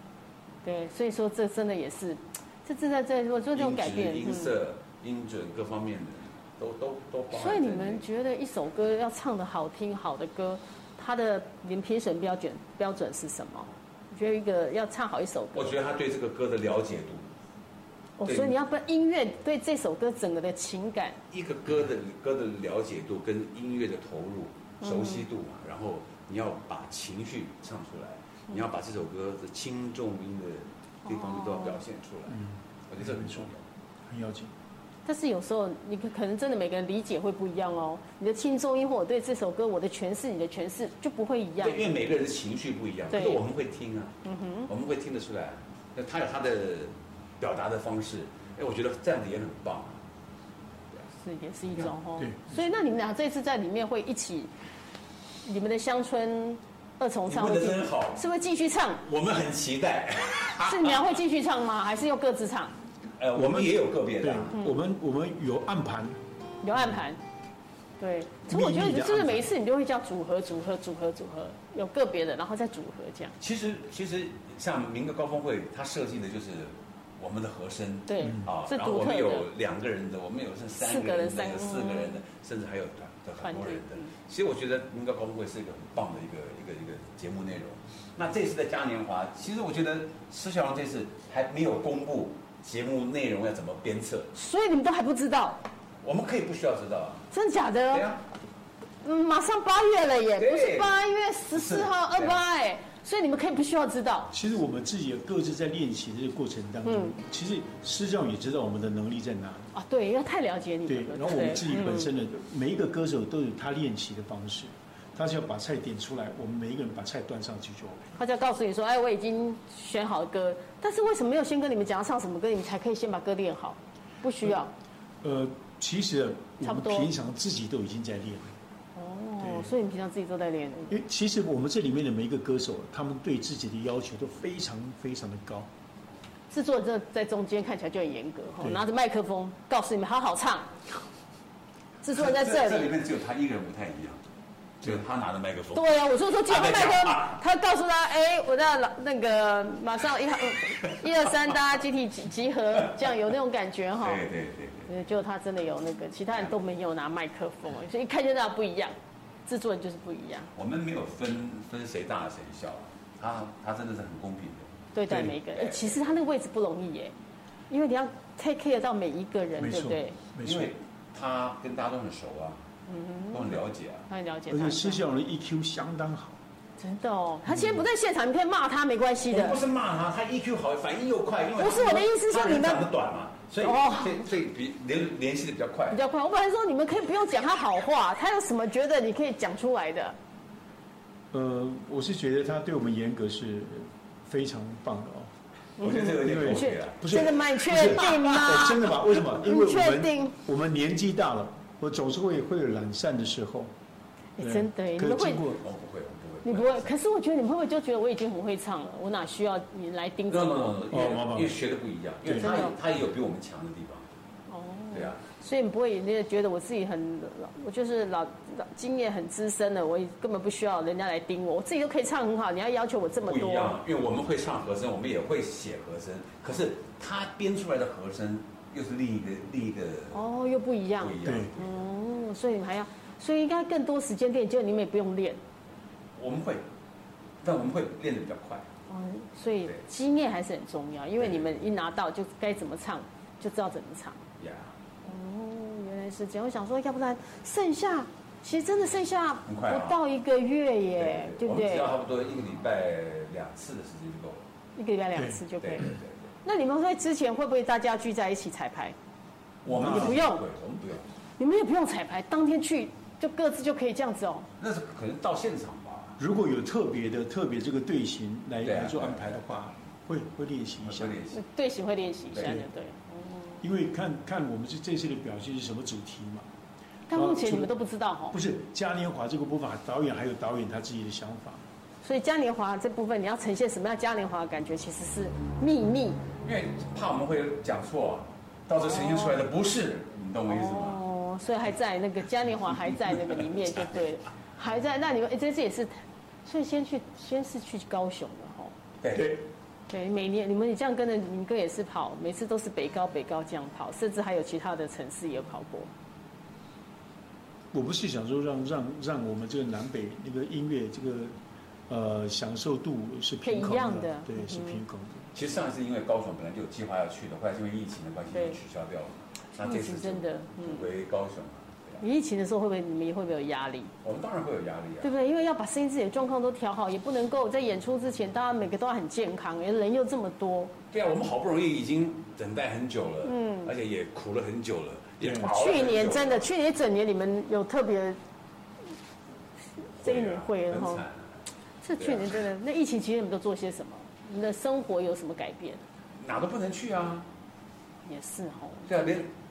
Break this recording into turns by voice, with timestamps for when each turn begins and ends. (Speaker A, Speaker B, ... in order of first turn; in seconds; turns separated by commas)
Speaker A: 0.6-4.5, Speaker B: 3.5-8.0, Speaker A: 7.3-15.8, Speaker B: 15.5-17.3, Speaker A: 18.2-21.2, Speaker B: 18.2-18.6, Speaker B: 21.3-33.6, Speaker A: 24.8-25.2, Speaker A: 31.1-31.8, Speaker C: 32.3-33.5, Speaker C: 34.1-34.5, Speaker A: 35.0-41.9, Speaker B: 41.6-44.1, Speaker A: 43.1-43.4, Speaker A: 44.2-44.7, Speaker B: 44.7-50.0, Speaker A: 51.2-54.5, Speaker C: 52.2-52.5, Speaker A: 55.4-59.0, Speaker B: 57.3-58.2, Speaker B: 59.0-61.1, Speaker A: 60.6-62.8, Speaker B: 63.2-64.5, Speaker C: 63.3-66.2, Speaker A: 64.5-64.8, Speaker A: 66.6-67.2, Speaker A: 68.0-73.3, Speaker C: 68.5-69.5, Speaker B: 73.4-94.3, Speaker A: 78.1-79.5, Speaker C: 78.2-78.5, Speaker A: 80.8-82.2, Speaker A: 83.4-84.1, Speaker A: 94.3-95.6, Speaker B: 96.0-97.3, Speaker A: 97.3-98.0, Speaker B: 97.9-98.2, Speaker A: 99.0-104.3, Speaker B: 100.4-101.0, Speaker B: 101.5-102.4, Speaker C: 104.3-109.7, Speaker A: 106.8-107.2, Speaker A: 109.7-112.1, Speaker C: 110.9-118.0, Speaker A: 118.2-124.7, Speaker C: 125.2-128.6, Speaker A: 126.6-127.1, Speaker A: 128.9-131.0, Speaker C: 129.4-129.7, Speaker C: 130.9-135.7, Speaker A: 136.5-140.7, Speaker A: 142.0-142.9, Speaker B: 142.1-144.2, Speaker B: 144.8-147.4, Speaker A: 145.7-154.2, Speaker B: 154.0-154.9, Speaker A: 154.9-158.9, Speaker A: 159.5-160.5, Speaker B: 160.6-166.0, Speaker A: 164.9-167.1, Speaker A: 167.7-170.2, Speaker C: 169.6-170.7, Speaker B: 170.4-172.6, Speaker A: 172.9-175.0, Speaker B: 173.3-174.1, Speaker C: 174.5-176.4, Speaker A: 176.8-179.6, Speaker C: 177.5-177.8, Speaker B: 179.3-186.0, Speaker A: 181.6-182.8, Speaker A: 183.6-184.2, Speaker A: 185.9-190.2, Speaker C: 191.3-195.3, Speaker A: 195.8-200.3, Speaker B: 195.8-198.3, Speaker C: 196.2-203.7, Speaker A: 204.4-205.5, Speaker C: 204.4-205.6, Speaker B: 205.6-206.9, Speaker A: 206.4-210.8, Speaker B: 210.3-214.1, Speaker C: 210.9-211.6, Speaker C: 212.2-212.5, Speaker A: 212.3-212.8, Speaker A: 214.5-223.8, Speaker B: 214.9-215.2, Speaker B: 223.2-230.2, Speaker A: 230.1-235.4, Speaker B: 231.0-231.8, Speaker C: 231.2-231.5, Speaker B: 236.2-236.6, Speaker B: 237.4-238.7, Speaker A: 238.9-244.2, Speaker B: 241.2-241.5, Speaker B: 244.4-244.7, Speaker A: 245.0-251.9, Speaker B: 249.5-250.0, Speaker B: 251.0-254.4, Speaker A: 254.8-255.9, Speaker C: 255.1-255.4, Speaker B: 255.6-256.3, Speaker A: 256.4-258.9, Speaker B: 259.6-261.1, Speaker C: 259.7-260.2, Speaker A: 259.7-260.4, Speaker A: 261.4-264.5, Speaker B: 264.6-266.2, Speaker C: 266.2-271.2, Speaker B: 268.6-269.4, Speaker B: 270.8-271.4, Speaker A: 271.3-273.6, Speaker B: 272.3-272.6, Speaker C: 273.6-276.5, Speaker A: 277.1-278.4, Speaker C: 277.1-277.7, Speaker C: 278.3-281.6, Speaker A: 282.0-286.2, Speaker B: 286.4-291.0, Speaker A: 288.9-289.4, Speaker A: 290.5-298.7, Speaker B: 299.0-299.4, Speaker C: 299.1-299.4, Speaker A: 299.9-305.9, Speaker C: 307.7-315.3, Speaker A: 313.4-314.8, Speaker B: 315.3-322.0, Speaker A: 318.3-318.6, Speaker A: 319.6-320.9, Speaker A: 322.0-323.9, Speaker B: 324.0-325.1, Speaker A: 325.0-330.7, Speaker B: 330.9-336.5, Speaker A: 333.2-333.7, Speaker C: 335.2-335.5, Speaker A: 335.4-338.2, Speaker B: 340.0-341.3, Speaker A: 340.0-341.0, Speaker A: 341.8-345.8, Speaker B: 342.0-342.3, Speaker B: 346.2-347.3, Speaker A: 348.0-349.1, Speaker B: 348.9-349.3